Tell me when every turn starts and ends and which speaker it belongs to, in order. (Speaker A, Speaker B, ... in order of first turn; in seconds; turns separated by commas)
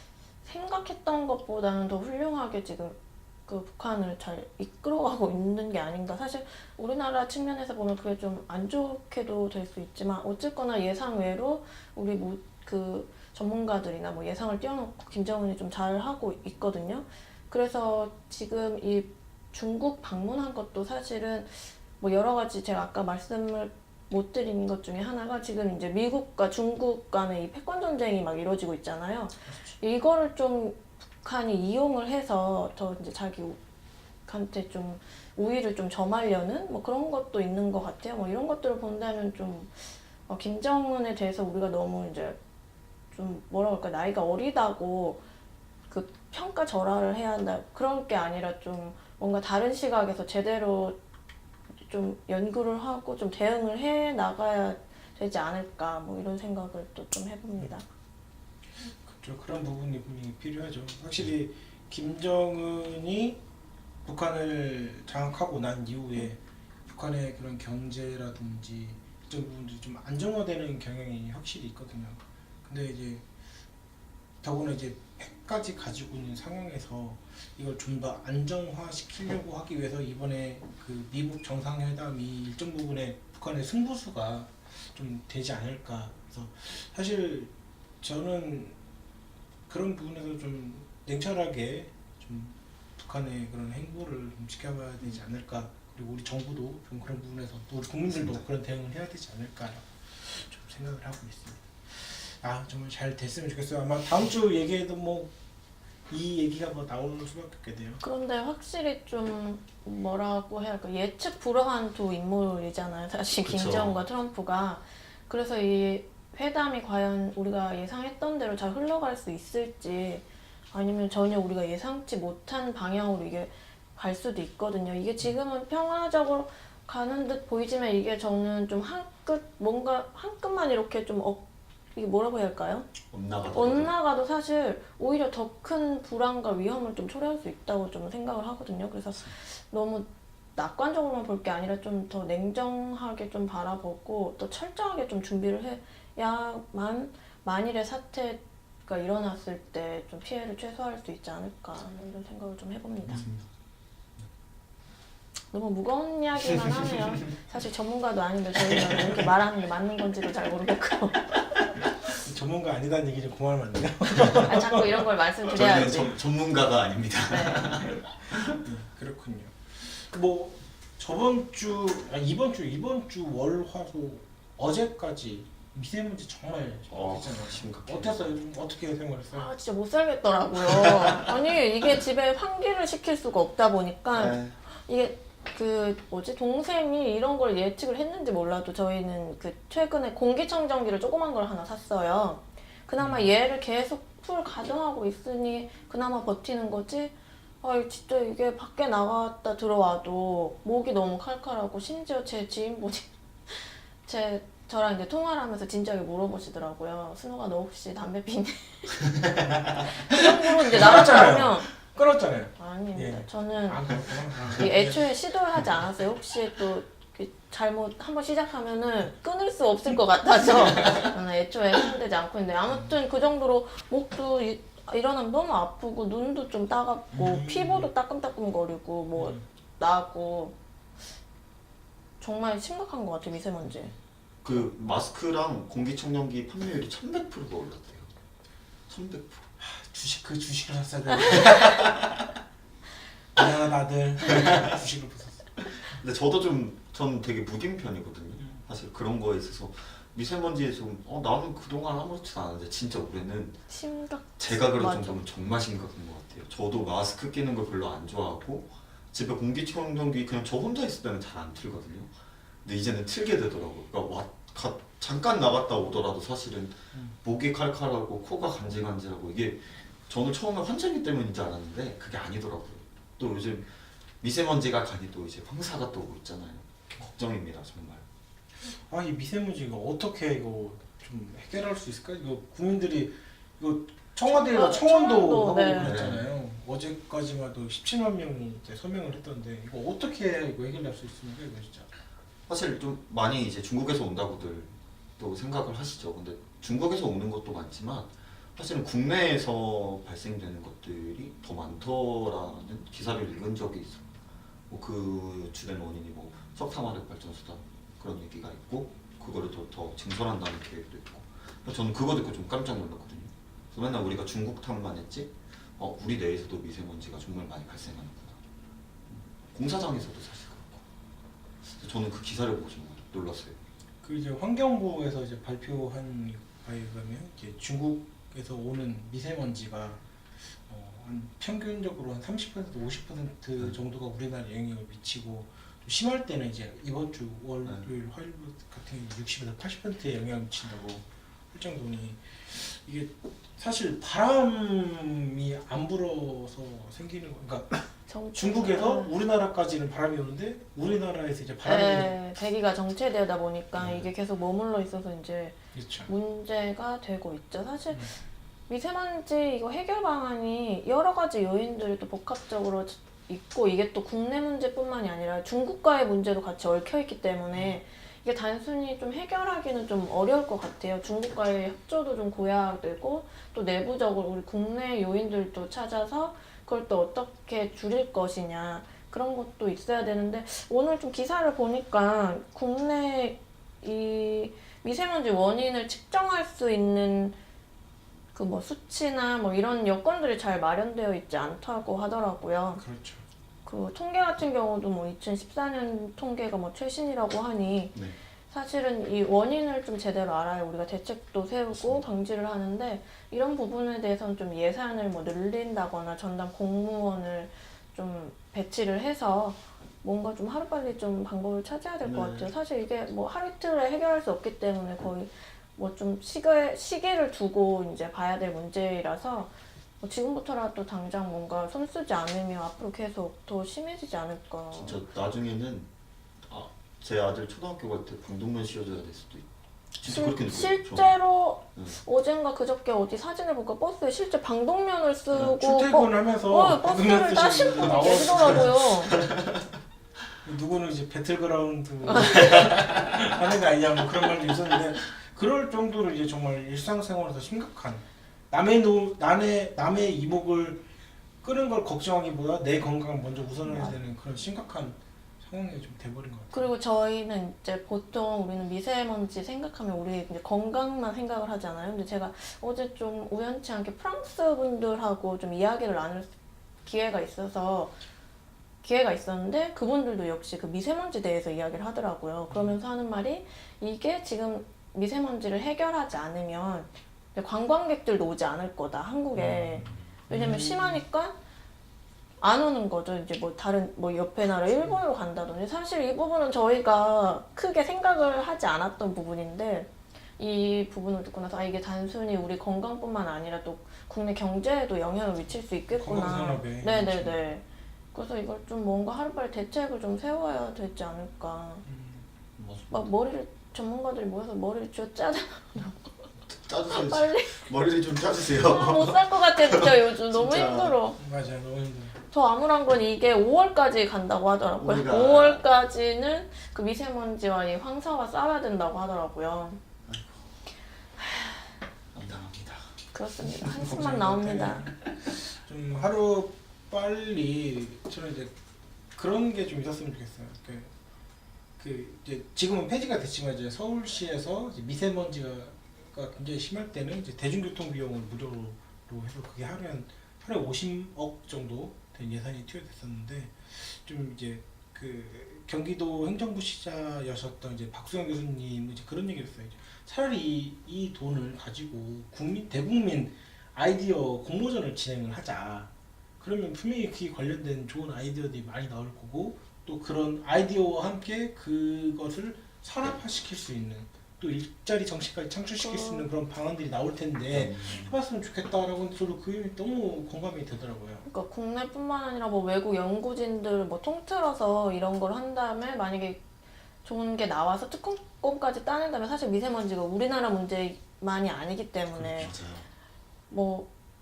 Speaker A: 0.4-33.6, Speaker A: 34.2-42.4, Speaker A: 43.1-45.2, Speaker A: 45.9-51.0, Speaker A: 51.9-57.8, Speaker B: 59.0-63.4, Speaker B: 64.0-73.2, Speaker B: 74.4-88.8, Speaker B: 89.7-105.3, Speaker C: 98.1-98.4, Speaker B: 106.1-108.0, Speaker A: 108.0-131.4, Speaker C: 113.4-114.0, Speaker A: 131.9-132.9, Speaker C: 133.1-133.9, Speaker A: 133.5-153.2, Speaker C: 153.1-153.4, Speaker A: 155.5-161.3, Speaker B: 162.1-165.0, Speaker A: 164.4-166.2, Speaker C: 165.5-168.4, Speaker A: 167.3-167.8, Speaker B: 168.4-179.5, Speaker C: 176.9-178.3, Speaker A: 179.3-209.1, Speaker C: 180.7-181.3, Speaker C: 184.1-184.6, Speaker B: 193.0-193.3, Speaker B: 209.4-215.1, Speaker A: 209.8-211.7, Speaker A: 212.6-230.6, Speaker B: 227.1-227.9, Speaker B: 229.2-229.4, Speaker A: 232.2-233.9, Speaker C: 234.4-238.1, Speaker C: 238.9-239.4, Speaker B: 239.6-242.1, Speaker B: 243.3-245.7, Speaker C: 245.8-253.6, Speaker A: 253.7-255.2, Speaker C: 254.4-262.1, Speaker C: 262.6-278.0, Speaker B: 278.6-291.9, Speaker A: 284.3-285.9, Speaker C: 285.8-286.2, Speaker C: 292.5-318.4, Speaker C: 319.1-320.8, Speaker C: 321.6-323.6, Speaker B: 324.0-352.1, Speaker A: 348.1-349.1, Speaker A: 351.6-355.6, Speaker B: 355.7-356.1, Speaker A: 356.1-358.1, Speaker A: 358.7-387.4, Speaker B: 367.5-367.8, Speaker A: 388.3-392.8, Speaker B: 392.8-393.2, Speaker A: 393.6-397.9, Speaker A: 398.5-425.0, Speaker C: 401.7-402.1, Speaker C: 412.0-412.5, Speaker C: 424.7-425.9, Speaker C: 426.4-429.5, Speaker C: 430.0-431.1, Speaker A: 430.1-439.2, Speaker B: 435.3-439.2, Speaker C: 439.2-439.6, Speaker B: 440.4-450.8, Speaker A: 442.2-442.5, Speaker B: 451.4-456.7, Speaker A: 453.6-453.9, Speaker A: 456.5-466.3, Speaker A: 466.8-467.9, Speaker A: 468.8-481.4, Speaker B: 472.5-472.8, Speaker B: 479.3-481.0, Speaker A: 482.4-501.8, Speaker B: 484.7-485.0, Speaker B: 495.9-497.4, Speaker B: 501.8-502.2, Speaker C: 502.6-502.9, Speaker A: 502.9-506.1, Speaker C: 506.4-510.9, Speaker A: 506.9-507.7, Speaker A: 508.5-511.2, Speaker B: 511.2-512.2, Speaker A: 512.3-519.8, Speaker C: 514.8-515.6, Speaker C: 520.1-520.4, Speaker A: 521.2-521.6, Speaker C: 522.1-522.9, Speaker A: 523.1-524.9, Speaker B: 523.7-528.5, Speaker B: 529.1-530.9, Speaker B: 531.8-571.2, Speaker A: 565.8-566.3, Speaker C: 567.5-568.1, Speaker A: 571.3-576.4, Speaker A: 577.0-582.5, Speaker C: 582.1-582.9, Speaker A: 583.5-583.9